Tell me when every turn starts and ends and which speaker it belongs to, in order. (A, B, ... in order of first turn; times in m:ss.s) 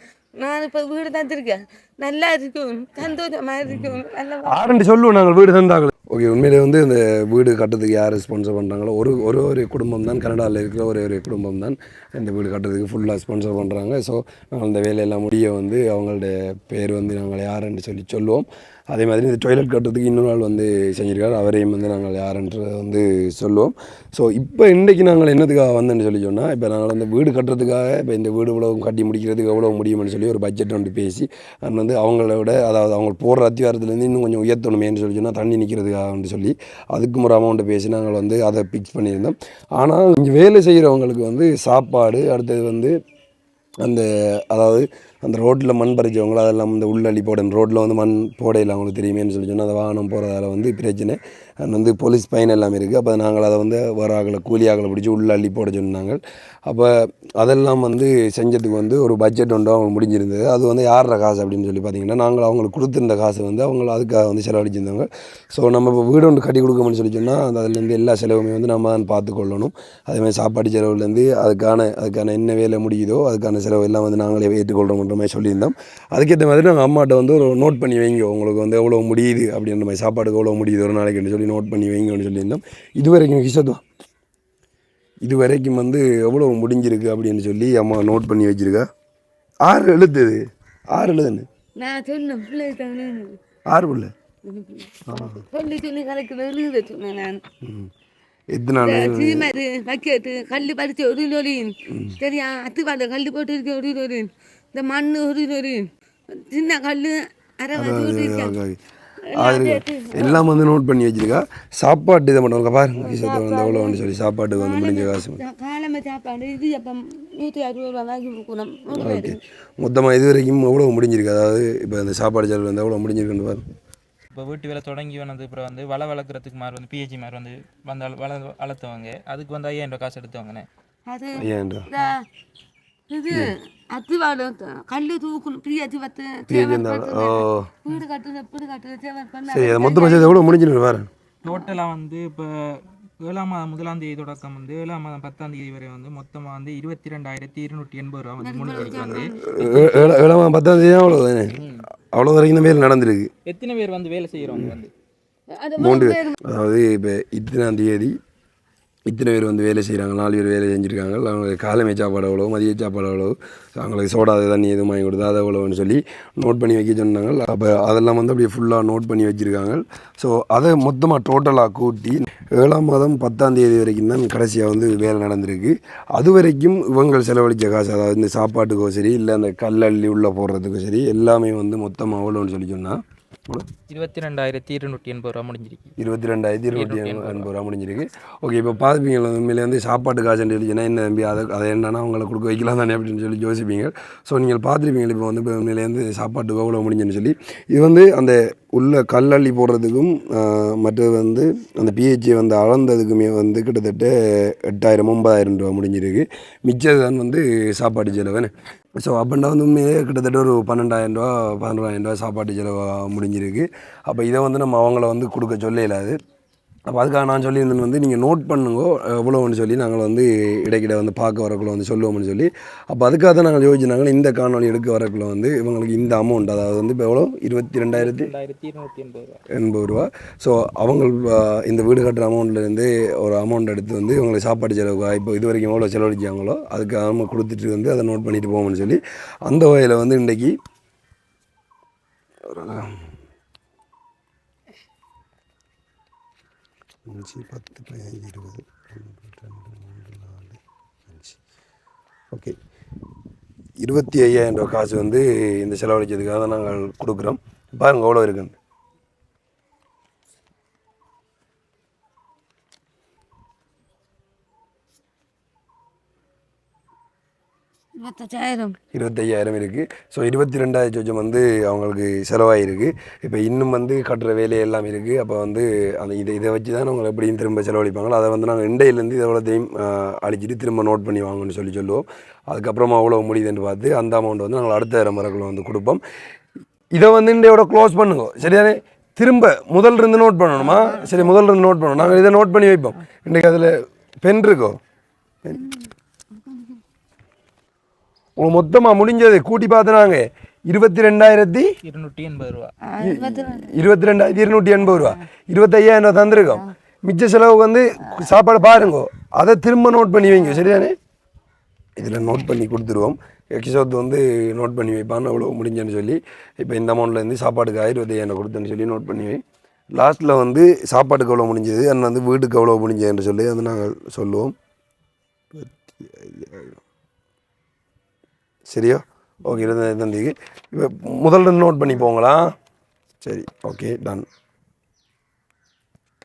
0:00.4-0:04.7 A
0:03.7-0:43.0 B
0:43.8-1:23.8 B
1:25.2-1:28.9 B
1:29.6-1:31.5 B
1:31.8-1:33.4 A
1:33.7-1:34.1 B
1:34.4-1:37.4 A
1:35.1-1:35.4 B
1:37.6-1:37.9 B
1:38.5-1:39.5 B
1:38.8-1:48.6 A
1:41.9-1:42.2 B
1:47.8-1:48.8 B
1:49.3-1:50.5 A
1:49.3-1:55.4 B
1:53.0-1:54.0 A
1:54.6-1:59.4 A
1:58.9-2:03.6 B
2:04.4-2:10.7 C
2:11.1-2:12.3 A
2:11.4-2:11.9 B
2:13.1-2:20.5 A
2:16.5-2:17.7 B
2:19.5-2:21.1 B
2:21.4-2:30.2 C
2:21.5-2:21.8 A
2:28.4-2:29.5 A
2:29.3-2:31.6 B
2:31.6-2:31.8 C
2:32.1-2:33.3 B
2:33.5-2:34.9 C
2:35.5-2:36.4 A
2:35.8-2:38.2 B
2:39.1-3:03.7 B
3:03.9-3:06.0 C
3:06.0-3:36.2 B
3:06.8-3:07.5 C
3:36.9-3:48.3 B
3:47.9-3:49.4 C
3:49.5-4:00.5 B
4:02.5-4:03.1 B
4:07.1-4:11.4 B
4:13.8-4:18.6 B
4:28.0-4:28.8 A
4:28.9-4:46.0 B
4:47.0-4:54.8 B
4:50.6-4:51.3 A
4:55.5-4:56.8 A
4:58.4-5:01.7 B
5:01.8-5:02.7 C
5:02.8-5:03.8 A
5:03.0-5:11.0 B
5:12.0-5:19.4 B
5:19.9-5:24.5 B
5:25.5-5:26.8 B
5:28.7-5:32.6 B
5:33.2-5:34.3 B